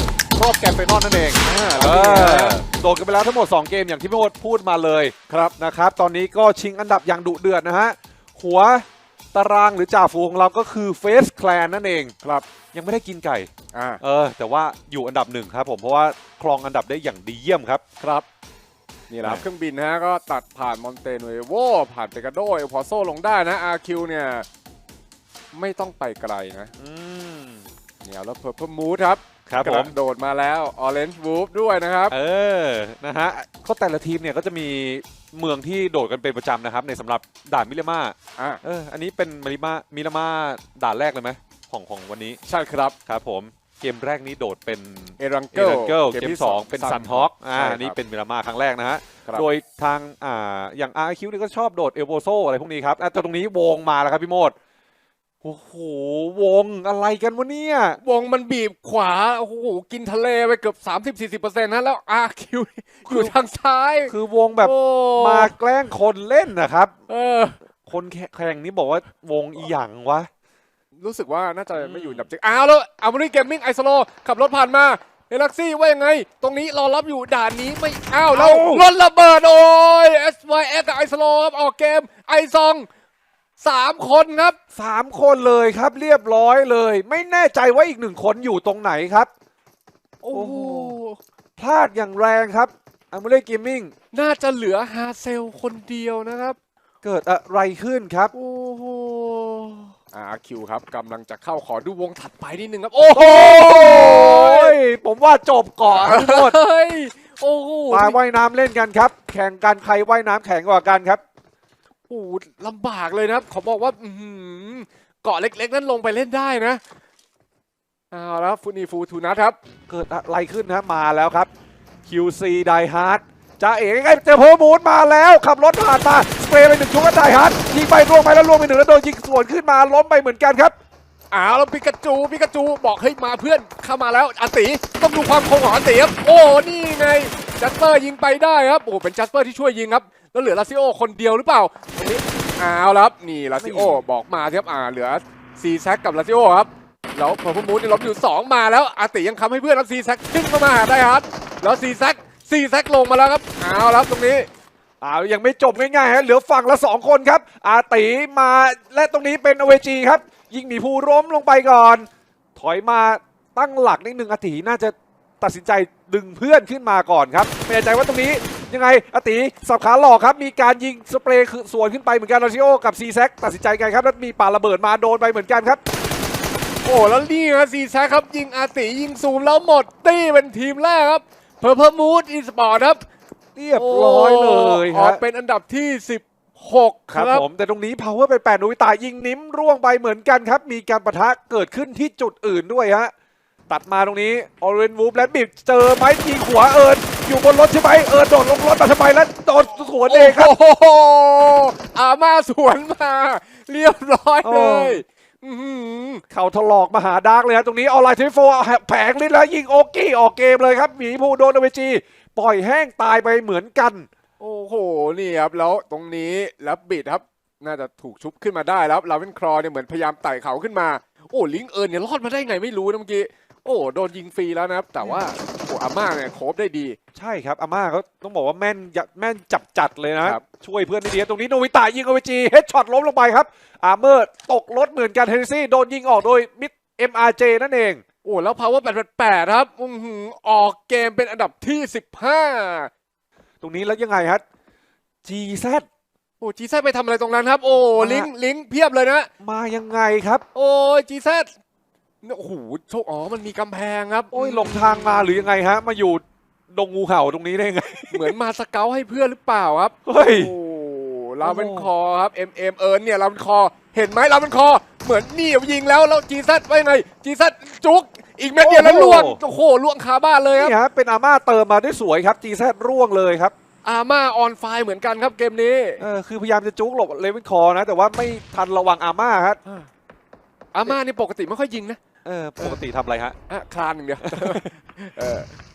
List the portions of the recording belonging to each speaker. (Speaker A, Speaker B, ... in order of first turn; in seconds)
Speaker A: 0.3-12.1, 12.7-13.5, 14.0-17.8, 26.8-27.6, 29.5-29.9, 32.1-42.4, 43.0-54.5, 55.4-58.0, 63.0-63.3, 64.1-66.9, 67.8-70.3, 71.8-72.3, 78.3-78.8, 84.8-89.3, 90.3-91.0, 91.6-93.9, 97.0-98.3, 103.1-106.5, 107.9-111.2, 119.9-121.5, 122.0-130.7, 143.6-144.0, 155.0-175.8, 183.6-185.2, 187.1-193.1, 193.7-200.5, 204.4-205.0, 206.3-214.1, 227.1-238.0, 243.6-244.4, 245.2-245.8, 247.9-248.3, 249.4-250.4, 254.3-258.3, 260.1-260.5, 261.4-261.9, 268.6-269.4, 270.5-273.5, 276.0-279.6, 282.2-283.4, 284.2-284.6
Speaker B: 1.4-2.6, 5.3-5.5, 13.7-14.0, 18.0-18.2, 19.1-24.4, 25.5-26.7, 28.0-32.1, 42.5-42.9, 45.2-48.0, 58.0-65.5, 67.1-67.5, 71.0-82.9, 83.6-84.6, 90.2-91.2, 94.1-96.6, 98.3-104.7, 105.9-108.2, 112.1-116.8, 118.1-119.6, 131.3-154.5, 176.8-183.0, 183.7-187.4, 200.1-206.2, 214.4-227.0, 238.2-242.9, 246.4-249.3, 250.5-251.5, 252.2-255.4, 258.1-270.8, 273.8-276.1, 280.7-282.0, 283.5-285.5